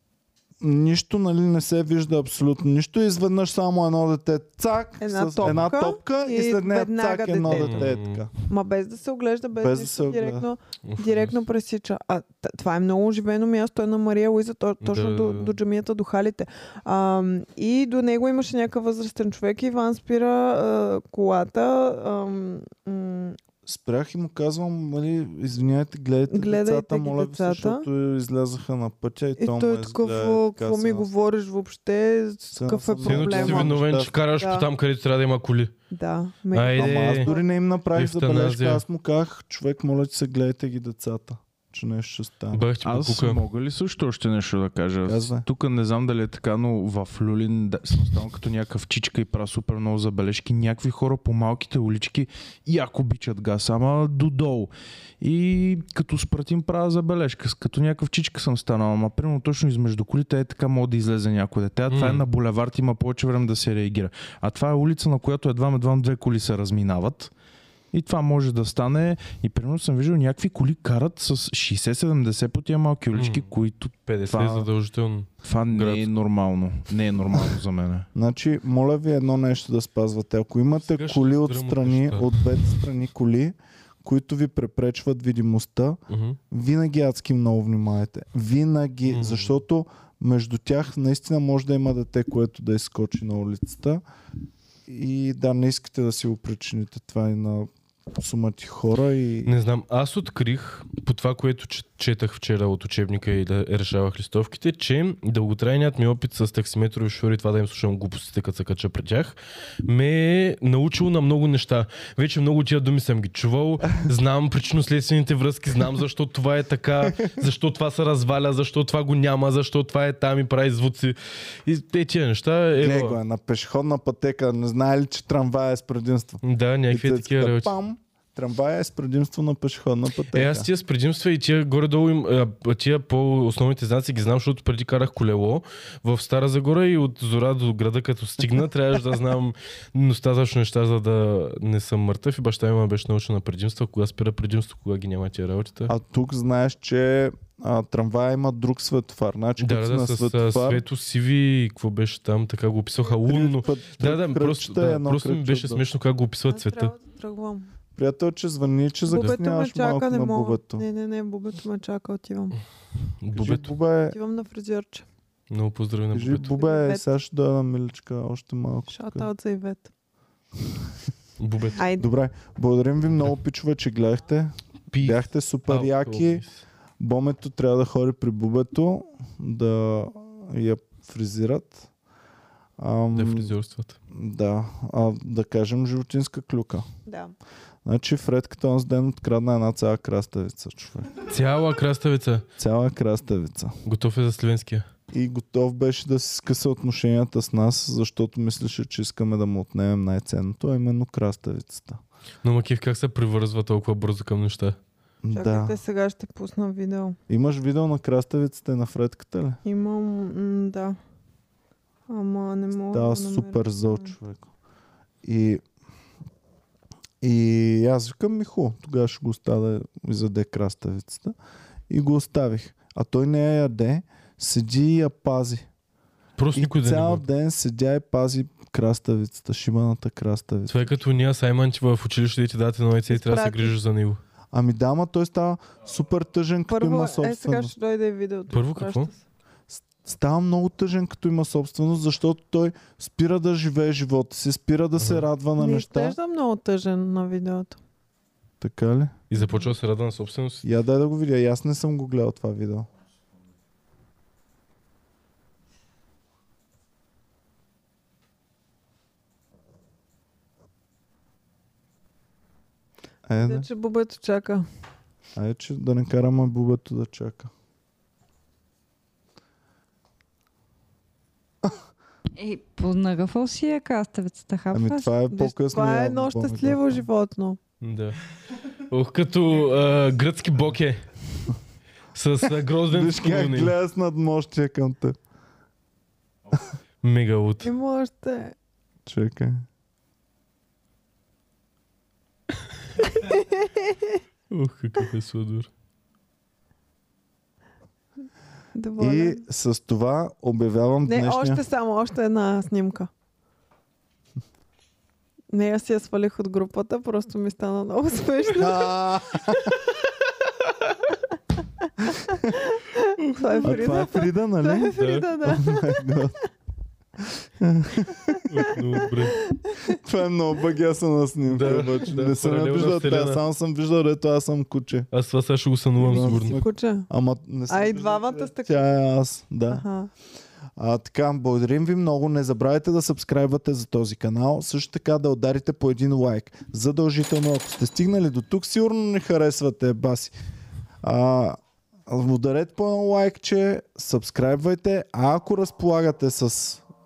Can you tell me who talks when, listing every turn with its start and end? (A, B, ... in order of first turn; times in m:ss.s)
0:00.6-0:08.3 A
0:05.0-0:07.9 B
0:07.5-0:08.3 C
0:08.4-0:23.4 B
0:09.6-0:10.5 A
0:10.8-0:11.4 C
0:14.8-0:15.6 C
0:23.7-0:31.1 A
0:26.3-0:27.9 B
0:29.4-0:33.8 B
0:32.5-0:34.2 A
0:33.0-0:35.7 C
0:34.4-0:34.7 B
0:35.9-0:37.4 B
0:36.5-0:37.3 C
0:36.8-0:42.6 A
0:37.9-0:38.8 C
0:42.5-0:43.4 C
0:42.8-1:07.3 D
0:45.0-0:45.5 A
1:01.9-1:02.2 C
1:07.9-1:14.7 D
1:13.1-1:13.5 C
1:14.1-1:16.1 C
1:15.4-1:18.1 D
1:18.1-1:26.0 A
1:20.8-1:22.7 C
1:26.1-1:26.4 C
1:26.5-1:34.0 A
1:29.1-1:29.5 C
1:34.9-1:39.5 A
1:39.5-2:03.2 C
2:02.8-2:10.7 A
2:06.4-2:07.8 C
2:10.3-2:25.9 C
2:25.9-2:30.8 A
2:29.6-2:37.0 C
2:33.3-2:35.8 A
2:36.5-2:37.7 B
2:38.0-2:40.8 A
2:39.1-2:42.6 B
2:43.2-2:43.7 C
2:43.4-2:44.2 A
2:44.1-2:45.0 B
2:45.5-2:46.6 C
2:46.1-2:49.3 A
2:46.4-2:47.1 B
2:48.9-2:49.9 B
2:51.4-2:51.8 C
2:51.8-2:52.1 B
2:52.0-2:56.4 A
2:54.9-2:56.6 C
2:57.0-3:01.9 A
3:02.8-3:03.5 A
3:03.1-3:04.0 C
3:04.1-3:06.9 A
3:07.1-3:07.4 B
3:07.8-3:11.2 A
3:11.3-3:12.4 C
3:12.6-3:13.7 A
3:13.8-3:14.9 C
3:15.1-3:22.0 A
3:22.4-3:24.8 C
3:25.2-3:25.8 A
3:25.3-3:27.2 B
3:27.3-3:29.6 A
3:29.6-3:31.0 B
3:32.1-3:34.1 B
3:32.9-3:34.5 A
3:35.2-3:35.6 A
3:37.2-3:41.3 A
3:41.9-3:45.7 A
3:46.4-3:47.2 C
3:46.6-3:51.0 A
3:50.7-3:54.2 C
3:53.1-3:53.8 B
3:54.5-3:57.7 A
3:56.7-3:59.2 B
3:58.5-3:59.1 C
3:59.7-4:06.2 A
4:05.0-4:05.3 C
4:05.6-4:07.8 B
4:08.6-4:09.1 A
4:09.3-4:10.7 C
4:10.6-4:12.9 A
4:23.3-4:23.7 A
4:23.4-4:24.7 B
4:25.4-4:27.5 A
4:32.4-4:35.1 E
4:34.7-4:37.0 A
4:35.3-4:37.6 B
4:37.8-4:38.2 C
4:38.9-4:41.1 C
4:42.1-4:43.8 C
4:42.9-4:45.2 A
4:47.0-4:47.7 C
4:47.6-4:48.6 B
4:49.1-4:49.6 A
4:53.1-4:54.2 B
4:54.5-4:55.7 C
4:58.8-4:59.4 B
4:59.0-5:01.6 A
5:01.1-5:03.1 B
5:05.5-5:09.0 B
5:08.6-5:09.7 A
5:12.3-5:16.2 B
5:13.2-5:14.0 C
5:13.6-5:16.4 A
5:15.0-5:15.3 C
5:17.6-5:18.5 A
5:18.5-5:19.4 C
5:19.5-5:20.0 B
5:19.9-5:25.1 A
5:21.5-5:23.4 C
5:25.1-5:26.6 C
5:26.0-5:29.8 A
5:26.1-5:27.1 B
5:27.7-5:28.9 B
5:29.7-5:30.1 B
5:30.8-5:40.3 A
5:41.0-5:46.8 A